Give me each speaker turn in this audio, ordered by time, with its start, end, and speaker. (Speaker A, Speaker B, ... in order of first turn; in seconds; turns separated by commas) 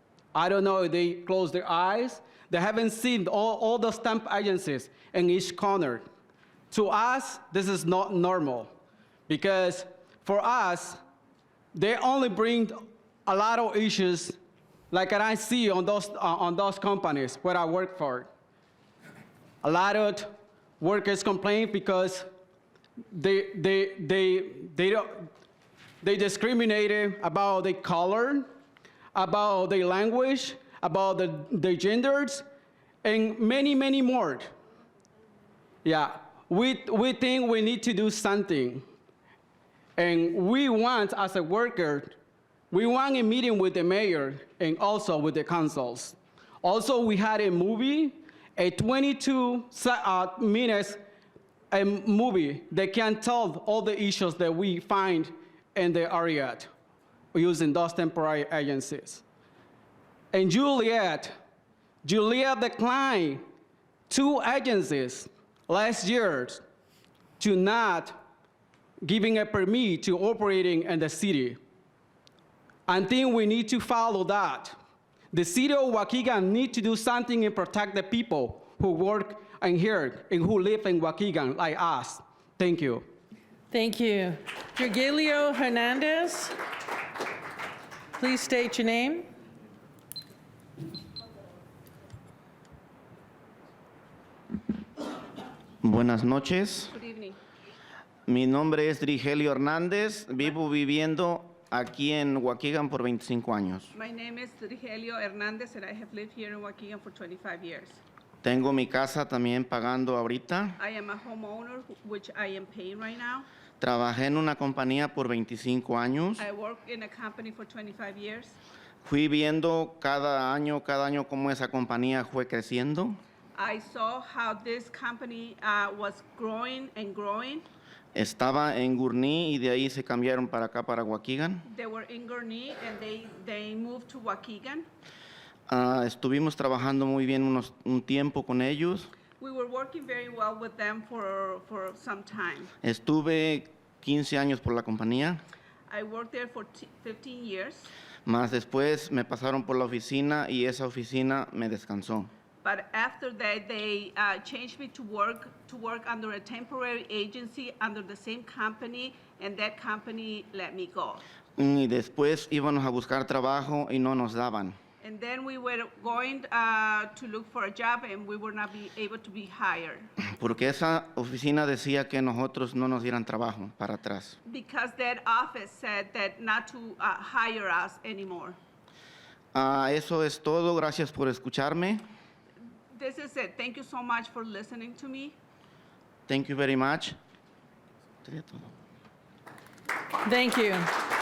Speaker A: 0.3-6.0, Speaker A: 6.7-8.7, Speaker A: 9.3-11.0, Speaker A: 11.7-14.4, Speaker A: 14.9-18.3, Speaker A: 19.6-22.2, Speaker A: 23.1-25.3, Speaker A: 26.0-28.4, Speaker A: 29.1-32.4, Speaker A: 33.0-34.5, Speaker A: 35.8-38.8, Speaker A: 40.0-42.1, Speaker A: 42.7-51.0, Speaker A: 51.7-56.7, Speaker A: 57.3-59.2, Speaker A: 60.3-61.4, Speaker A: 62.0-63.4, Speaker A: 64.1-66.6, Speaker A: 67.4-68.2, Speaker A: 69.0-71.6, Speaker A: 72.9-74.8, Speaker A: 75.3-83.0, Speaker B: 83.7-86.6, Speaker B: 88.1-89.3, Speaker C: 95.8-96.9, Speaker D: 96.9-97.4, Speaker C: 98.3-103.9, Speaker D: 103.9-108.0, Speaker C: 108.4-110.8, Speaker D: 110.8-113.5, Speaker C: 113.8-116.5, Speaker D: 116.4-118.6, Speaker C: 119.0-123.2, Speaker D: 123.5-127.7, Speaker C: 128.1-131.6, Speaker D: 131.7-134.9, Speaker C: 135.7-139.1, Speaker D: 139.4-142.7, Speaker C: 142.8-145.4, Speaker D: 145.9-147.9, Speaker C: 148.2-152.3, Speaker D: 152.6-161.2, Speaker C: 161.6-164.8, Speaker D: 165.0-170.1, Speaker C: 170.3-174.3, Speaker D: 174.4-178.6, Speaker C: 179.5-182.0, Speaker D: 182.9-185.3, Speaker C: 186.3-187.2, Speaker C: 188.2-188.7, Speaker B: 190.2-190.9